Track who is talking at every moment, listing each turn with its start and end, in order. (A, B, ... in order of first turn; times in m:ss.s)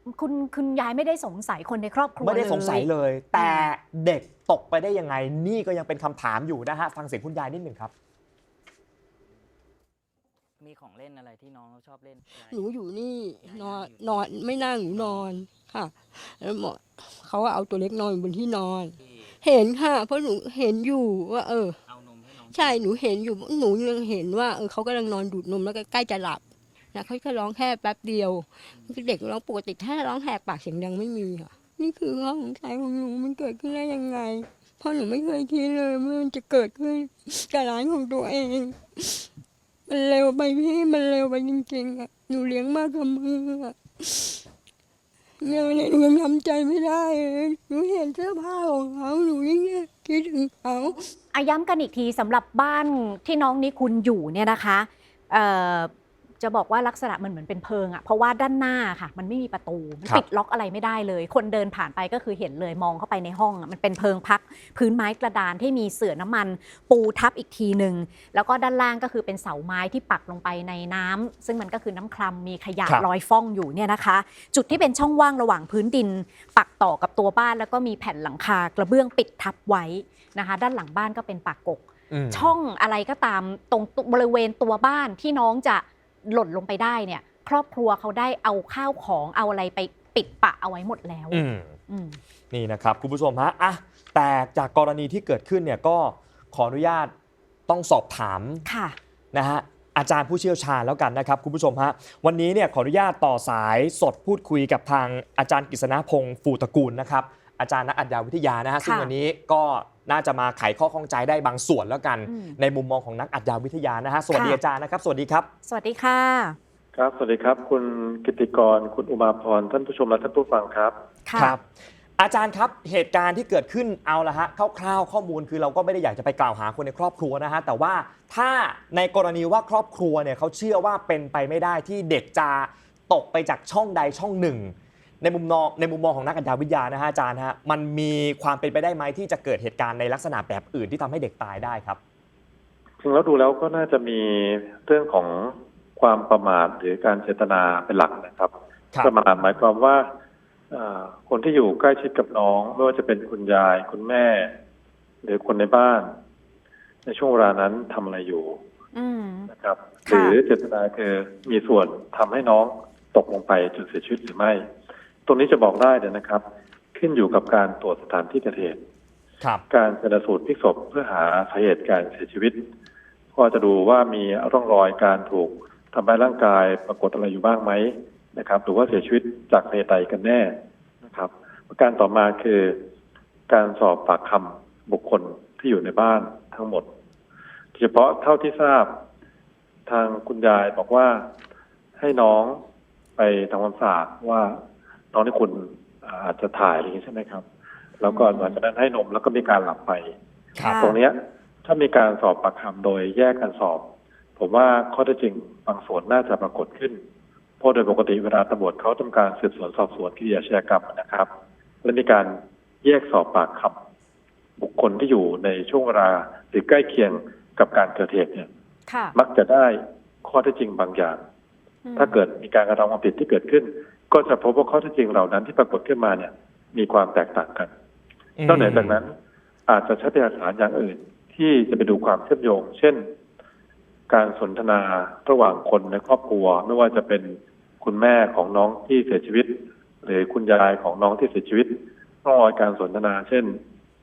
0:00.1-0:03.7 A
0:02.2-0:07.9 B
0:10.6-0:12.5 C
0:12.3-0:21.8 D
0:13.4-0:14.2 C
0:21.9-0:22.5 C
0:22.3-0:26.4 D
0:26.9-0:39.3 D
0:39.9-0:44.4 D
0:45.4-0:51.1 D
0:51.3-1:32.2 A
1:22.1-1:22.5 B
1:31.3-1:31.8 B
1:32.5-1:37.1 B
1:37.7-1:38.6 B
1:38.6-1:39.0 A
1:39.3-1:55.5 B
1:48.8-1:49.1 A
1:52.2-1:52.6 A
1:54.3-1:54.6 A
1:55.6-1:56.6 A
1:57.0-2:00.9 E
2:01.2-2:01.5 A
2:01.4-2:01.6 B
2:02.2-2:22.0 B
2:23.0-2:28.5 E
2:29.0-2:30.0 E
2:30.7-2:34.5 E
2:35.2-2:36.1 E
2:37.1-2:38.6 E
2:39.0-2:39.5 A
2:39.5-2:44.6 E
2:40.1-2:40.4 A
2:45.3-2:46.4 E
2:46.9-2:48.8 E
2:49.7-2:52.6 E
2:53.4-3:00.5 E
3:01.0-3:02.8 E
3:03.5-3:06.8 E
3:07.8-3:08.9 E
3:09.9-3:11.2 E
3:12.0-3:12.6 E
3:13.2-3:14.6 E
3:15.1-3:17.4 E
3:18.0-3:20.1 E
3:18.0-3:18.6 A
3:20.6-3:21.0 A
3:20.8-3:23.8 E
3:24.4-3:27.0 E
3:27.6-3:31.3 E
3:31.8-3:33.8 E
3:34.6-3:38.5 E
3:38.9-3:39.2 A
3:39.1-3:41.2 E
3:41.8-3:42.2 A
3:42.0-3:47.7 E
3:48.4-3:49.0 B
3:48.5-3:49.1 E
3:49.7-3:53.1 E
3:54.1-3:59.5 E
4:00.0-4:01.7 E
4:02.2-4:03.6 E